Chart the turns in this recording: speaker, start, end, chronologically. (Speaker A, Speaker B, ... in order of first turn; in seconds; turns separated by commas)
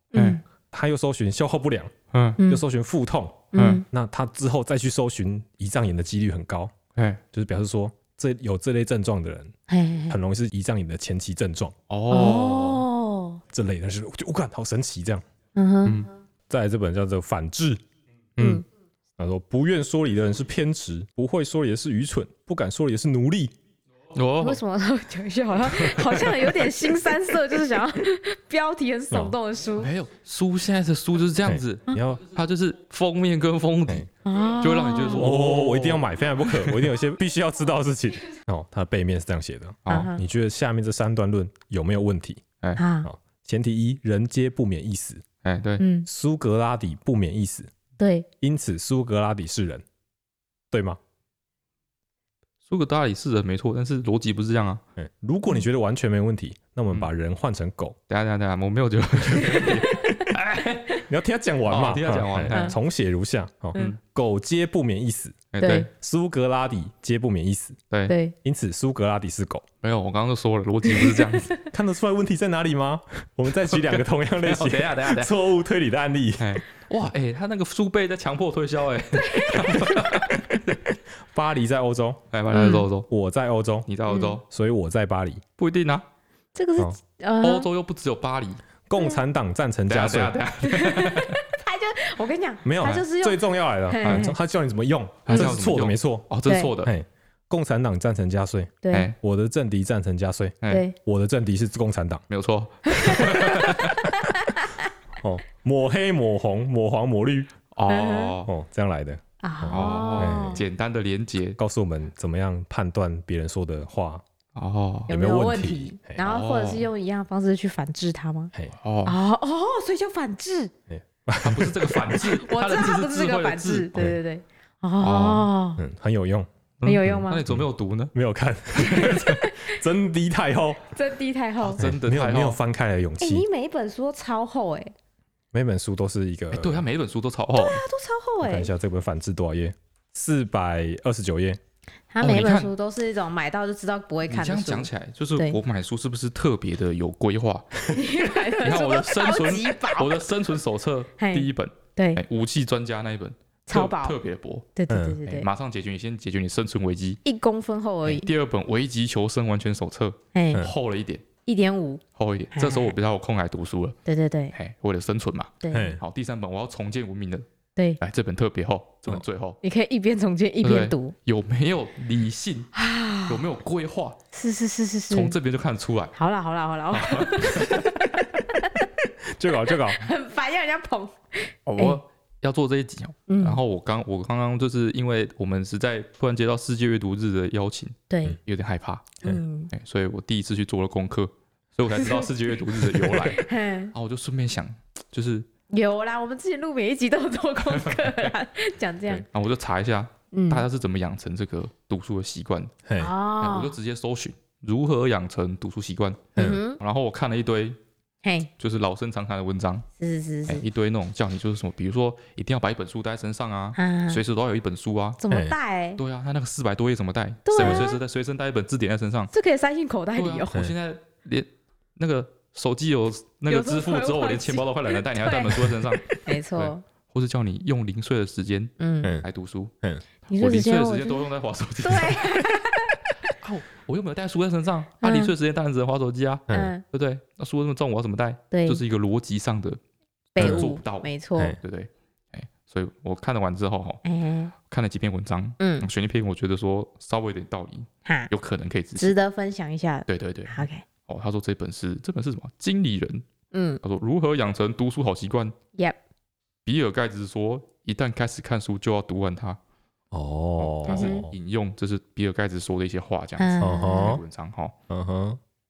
Speaker A: 0.1-0.4, Speaker B: 0.1-0.4, Speaker C: 0.7-1.9, Speaker B: 2.1-2.4, Speaker C: 2.5-6.7, Speaker A: 3.5-3.9, Speaker B: 3.6-3.8, Speaker B: 7.0-7.2, Speaker C: 7.3-9.5, Speaker A: 9.7-10.2, Speaker C: 10.1-11.8, Speaker B: 11.9-12.8, Speaker A: 12.1-13.4, Speaker C: 13.5-15.2, Speaker A: 15.6-16.1, Speaker C: 16.5-17.8, Speaker A: 18.4-18.6, Speaker C: 19.2-23.5, Speaker B: 24.1-24.6, Speaker A: 24.4-29.9, Speaker B: 26.0-26.2, Speaker B: 29.8-36.9, Speaker C: 31.4-32.2, Speaker A: 34.2-35.5, Speaker C: 35.1-42.4, Speaker B: 39.9-40.1, Speaker A: 39.9-40.2, Speaker A: 42.8-43.1, Speaker C: 43.0-45.2, Speaker B: 45.4-45.8, Speaker A: 45.8-46.1, Speaker C: 46.1-47.7, Speaker A: 48.0-48.3, Speaker C: 48.4-49.8, Speaker C: 50.7-51.0, Speaker B: 52.7-54.8, Speaker C: 55.0-58.0, Speaker B: 58.1-61.0, Speaker A: 59.5-60.2, Speaker C: 61.1-67.8, Speaker B: 61.7-62.8, Speaker B: 65.5-65.9, Speaker A: 65.6-65.9, Speaker A: 68.1-68.3, Speaker C: 68.4-69.7, Speaker B: 69.8-71.5, Speaker A: 70.9-71.3, Speaker C: 71.7-76.6, Speaker B: 73.7-75.3, Speaker B: 76.4-80.8, Speaker A: 79.2-80.1, Speaker C: 81.3-82.2, Speaker B: 82.3-83.1, Speaker A: 82.5-82.8, Speaker C: 83.1-83.9, Speaker B: 83.9-84.4, Speaker A: 84.1-84.4, Speaker C: 84.5-85.4, Speaker B: 85.6-86.0, Speaker A: 86.5-87.7, Speaker B: 87.4-88.6, Speaker C: 88.9-90.4, Speaker B: 89.9-91.5, Speaker A: 90.6-94.3, Speaker C: 92.6-96.3, Speaker B: 94.0-94.3, Speaker B: 95.3-96.9, Speaker A: 95.3-95.5, Speaker A: 96.5-96.7, Speaker C: 96.8-102.2, Speaker A: 98.8-99.1, Speaker A: 100.7-101.0, Speaker B: 102.3-104.1, Speaker A: 102.9-104.8, Speaker C: 105.2-107.5, Speaker B: 107.7-108.5, Speaker A: 107.9-108.4, Speaker C: 108.5-110.7, Speaker A: 109.4-110.6, Speaker B: 109.7-111.6, Speaker C: 111.6-114.2, Speaker B: 114.5-115.1, Speaker C: 115.1-116.2, Speaker A: 115.1-118.5, Speaker B: 116.2-116.9, Speaker B: 118.8-119.2, Speaker A: 119.0-120.7, Speaker C: 120.9-122.1, Speaker B: 121.4-123.9, Speaker A: 122.1-125.8, Speaker B: 125.0-125.5, Speaker C: 125.8-126.5, Speaker B: 126.8-128.1, Speaker A: 126.8-127.4, Speaker C: 127.0-130.9, Speaker B: 128.8-129.4, Speaker A: 128.9-129.8, Speaker A: 130.9-131.8, Speaker B: 131.6-132.6, Speaker C: 131.8-133.5, Speaker A: 133.2-134.9, Speaker C: 135.5-136.9, Speaker B: 136.5-137.8, Speaker A: 137.6-138.7, Speaker C: 138.4-141.6, Speaker A: 142.1-145.6, Speaker B: 142.2-142.7, Speaker B: 144.3-147.8, Speaker A: 147.9-150.2, Speaker B: 148.6-154.7, Speaker A: 151.2-152.2, Speaker A: 153.7-154.2, Speaker A: 154.8-155.5, Speaker C: 154.9-155.2, Speaker B: 155.3-157.2, Speaker A: 157.2-158.3, Speaker B: 158.1-161.2, Speaker A: 160.3-160.7, Speaker A: 161.5-162.0, Speaker B: 162.2-164.0, Speaker A: 162.5-162.9, Speaker A: 164.1-164.5, Speaker B: 164.5-167.5, Speaker A: 165.6-166.0, Speaker C: 165.7-166.0, Speaker B: 168.0-169.6, Speaker A: 169.6-171.1, Speaker B: 170.6-172.7, Speaker A: 172.8-173.4, Speaker B: 173.3-174.2, Speaker A: 174.3-175.4, Speaker B: 175.1-176.1, Speaker A: 176.2-178.8, Speaker B: 176.9-177.9, Speaker C: 179.3-180.0, Speaker A: 179.9-182.0, Speaker B: 181.7-195.5, Speaker A: 183.3-183.6, Speaker A: 188.1-188.4, Speaker A: 189.2-189.7, Speaker A: 191.9-193.9, Speaker A: 195.7-199.2, Speaker B: 197.7-198.3, Speaker B: 199.1-202.7, Speaker A: 200.3-200.7, Speaker C: 202.9-203.1, Speaker A: 203.0-203.7, Speaker B: 203.4-207.8, Speaker C: 206.4-206.6, Speaker A: 206.4-206.8, Speaker A: 208.2-208.5, Speaker B: 208.6-209.9, Speaker A: 210.0-210.6, Speaker B: 210.5-215.2, Speaker A: 213.8-214.2, Speaker A: 215.2-216.0, Speaker B: 216.0-219.3, Speaker A: 217.5-218.0, Speaker A: 219.3-220.6, Speaker B: 220.2-229.7, Speaker A: 223.5-226.8, Speaker A: 228.8-229.1, Speaker A: 230.3-231.3, Speaker B: 230.4-232.6, Speaker A: 231.8-233.3, Speaker B: 233.4-239.8, Speaker A: 235.0-235.3, Speaker A: 236.5-236.8, Speaker A: 238.5-238.8, Speaker B: 240.3-241.1, Speaker A: 240.4-241.6, Speaker C: 240.4-240.7, Speaker B: 241.6-244.0, Speaker A: 244.0-244.5, Speaker B: 244.7-249.2, Speaker A: 245.6-245.9, Speaker A: 249.0-250.8, Speaker B: 250.1-253.2, Speaker A: 253.5-253.8, Speaker B: 253.8-255.5, Speaker B: 256.6-259.6, Speaker C: 260.1-261.3, Speaker B: 260.6-264.8, Speaker A: 260.9-261.3, Speaker A: 263.4-264.2, Speaker C: 263.6-264.2, Speaker C: 264.9-265.4